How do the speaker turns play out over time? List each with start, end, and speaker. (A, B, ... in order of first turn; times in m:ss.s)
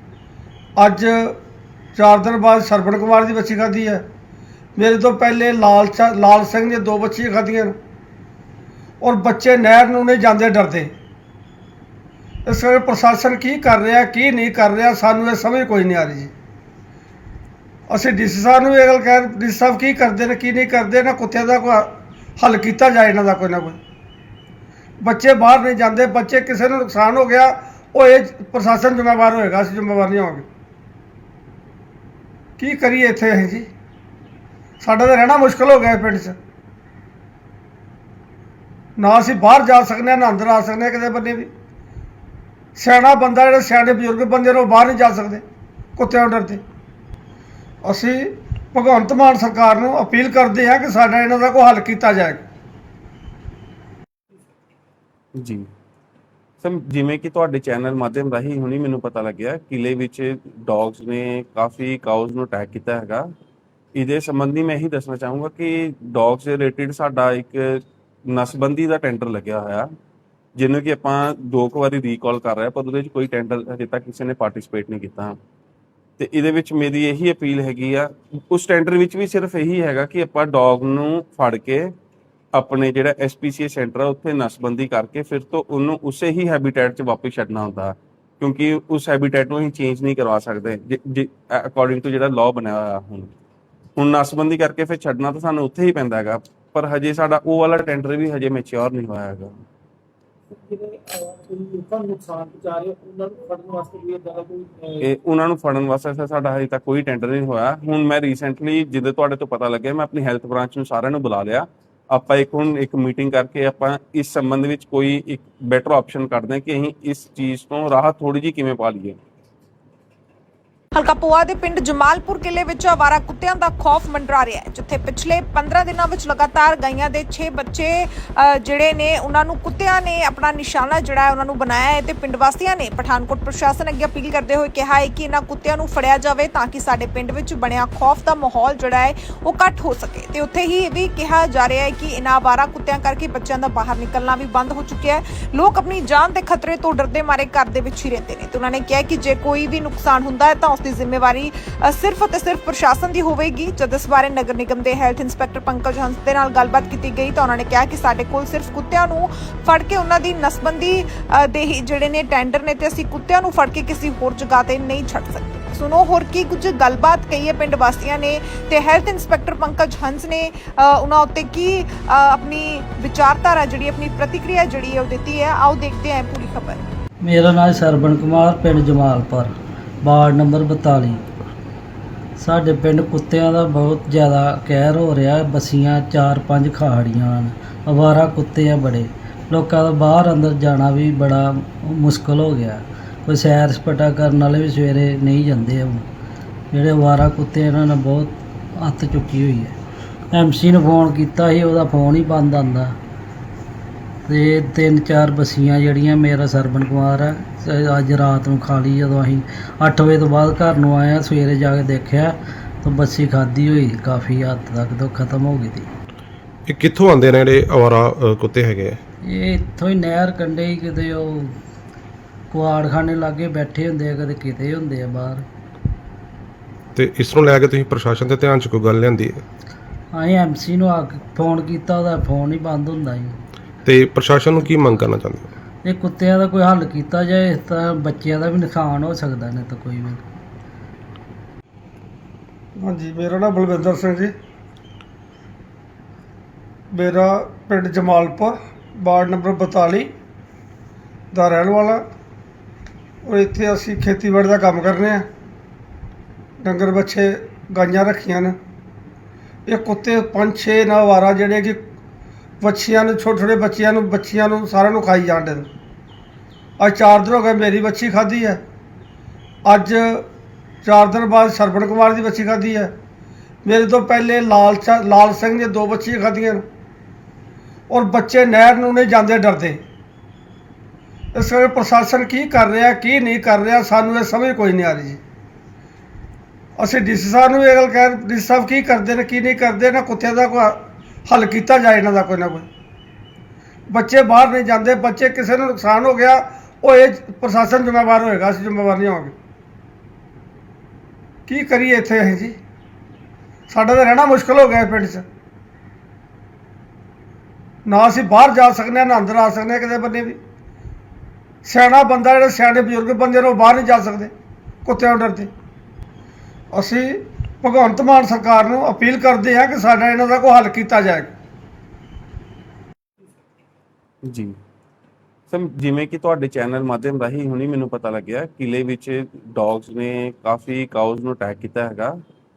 0:00.8-0:01.4 A
0:01.9-0:04.0 A
0:04.8-0:07.7 A
0:09.0-0:10.9 A
0:12.4-0:16.3 A
0:17.9-0:23.8 A
0:25.0-0:30.4 A
0:32.6-0:33.7 A
0:34.8-0:36.4 A
0:39.0-0:41.5 A
0:42.8-0:45.4 A
0:46.0-0:46.6 A
0:47.8-0:52.4 A
0:55.4-0:55.7 B
0:56.6-1:03.3 B
1:03.9-1:09.9 B
1:10.5-1:15.4 B
1:16.2-1:21.9 B
1:22.5-1:33.3 B
1:34.0-1:39.6 B
1:40.5-1:45.1 C
1:45.0-1:59.2 B
2:00.9-2:56.8 D
2:57.2-3:01.2 E
3:02.4-3:16.0 E
3:16.7-3:19.8 E
3:20.3-3:23.0 E
3:24.2-3:35.9 E
3:36.7-3:39.0 F
3:39.2-3:41.6 E
3:42.5-3:45.4 E
3:47.0-3:49.4 F
3:50.1-3:53.4 E
3:53.8-3:55.5 F
3:55.8-4:00.2 E
4:02.8-4:04.3 A
4:06.9-4:10.1 A
4:11.3-4:12.0 A
4:13.2-4:15.2 A
4:16.6-4:18.5 A
4:19.7-4:21.8 A
4:22.6-4:25.7 A
4:26.8-4:28.6 A
4:29.6-4:30.3 A
4:30.8-4:32.9 A
4:33.6-4:36.6 A
4:37.9-4:39.8 A
4:41.3-4:45.2 A
4:46.8-4:52.6 A
4:53.9-4:59.3 A
5:01.5-5:02.5 A
5:03.7-5:05.2 A
5:07.8-5:10.4 A
5:11.6-5:14.3 A
5:14.8-5:15.5 A
5:16.7-5:21.3 A
5:24.2-5:24.6 B
5:25.5-5:32.2 B